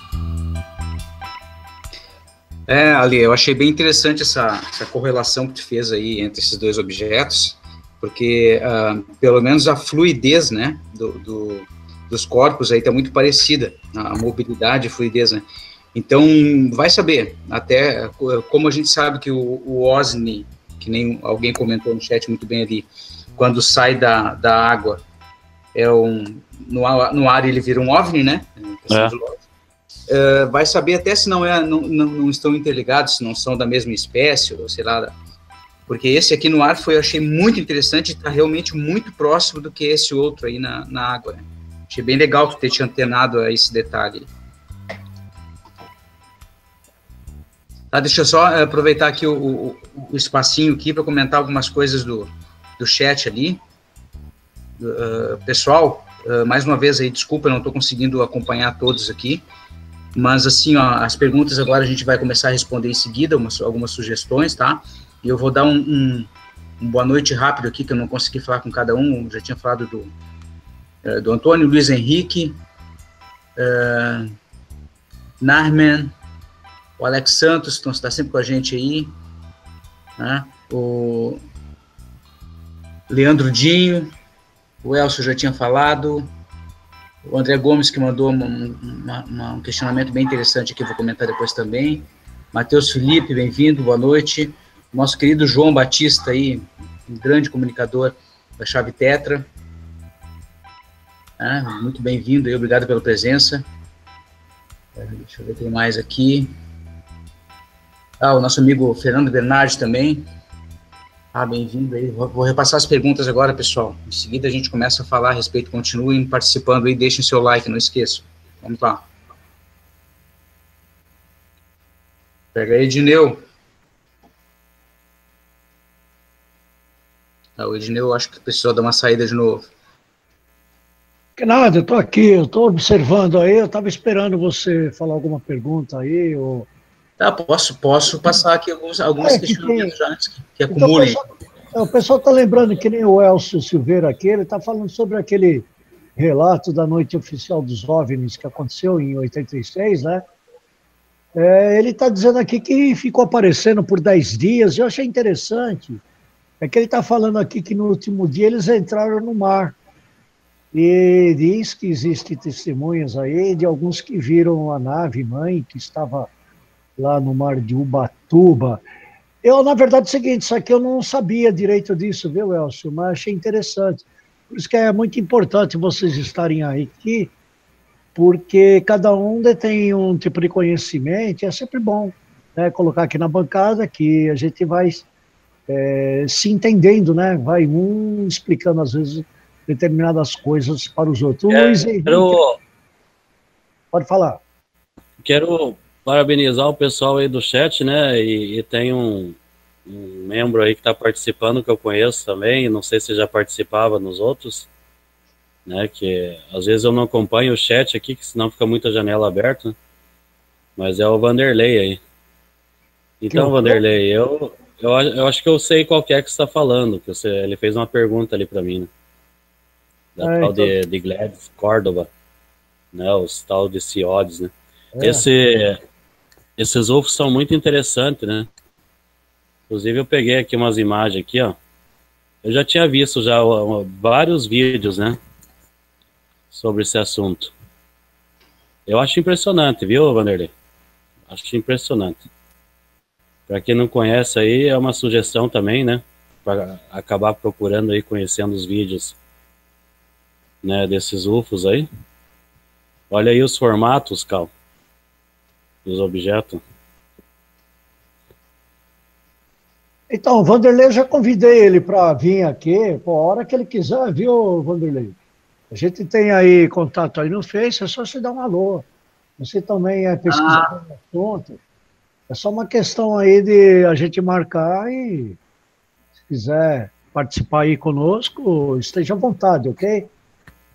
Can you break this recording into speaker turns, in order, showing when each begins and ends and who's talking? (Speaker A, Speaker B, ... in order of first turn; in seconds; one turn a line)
Speaker A: 2.7-25.0
Speaker A: 25.7-29.4
Speaker A: 30.1-35.1
Speaker A: 35.9-44.3
Speaker A: 47.9-53.6
Speaker A: 54.8-59.4
Speaker A: 60.1-70.1
Speaker A: 71.0-72.6
Speaker A: 73.5-74.3
Speaker A: 75.4-76.1
Speaker A: 77.0-79.1
Speaker A: 80.2-81.4
Speaker A: 83.1-84.1
Speaker A: 84.8-86.3
Speaker A: 87.2-99.5
Speaker A: 101.4-103.6
Speaker A: 105.0-106.5
Speaker A: 108.2-110.3
Speaker A: 111.3-119.0
Speaker A: 122.5-123.4
Speaker A: 127.6-129.6
Speaker B: 131.4-136.7
Speaker A: 137.2-141.2
Speaker B: 139.2-139.9
Speaker B: 140.7-150.2
Speaker B: 151.3-156.0
Speaker B: 156.6-159.8
Speaker B: 160.7-166.3
Speaker B: 167.0-168.8
Speaker B: 169.4-177.3
Speaker B: 178.1-185.1
Speaker B: 185.7-192.3
Speaker C: 191.5-192.6
Speaker B: 193.9-194.4
Speaker C: 195.2-204.7
Speaker C: 205.7-209.7
Speaker C: 210.8-212.0
Speaker C: 213.2-218.9
Speaker B: 213.3-213.8
Speaker C: 220.2-222.1
Speaker B: 220.2-220.7
Speaker C: 222.9-225.8
Speaker B: 225.0-225.2
Speaker C: 226.6-228.5
Speaker C: 229.7-231.6
Speaker C: 232.4-235.2
Speaker C: 236.5-237.5
Speaker C: 238.9-240.5
Speaker C: 241.3-242.2
Speaker C: 243.5-249.2
Speaker C: 250.6-251.9
Speaker C: 253.1-254.5
Speaker C: 255.8-256.6
Speaker B: 260.1-265.1
Speaker B: 265.7-268.9
Speaker B: 269.4-271.6
Speaker A: 270.3-270.7
Speaker B: 272.3-275.4
Speaker B: 276.3-280.1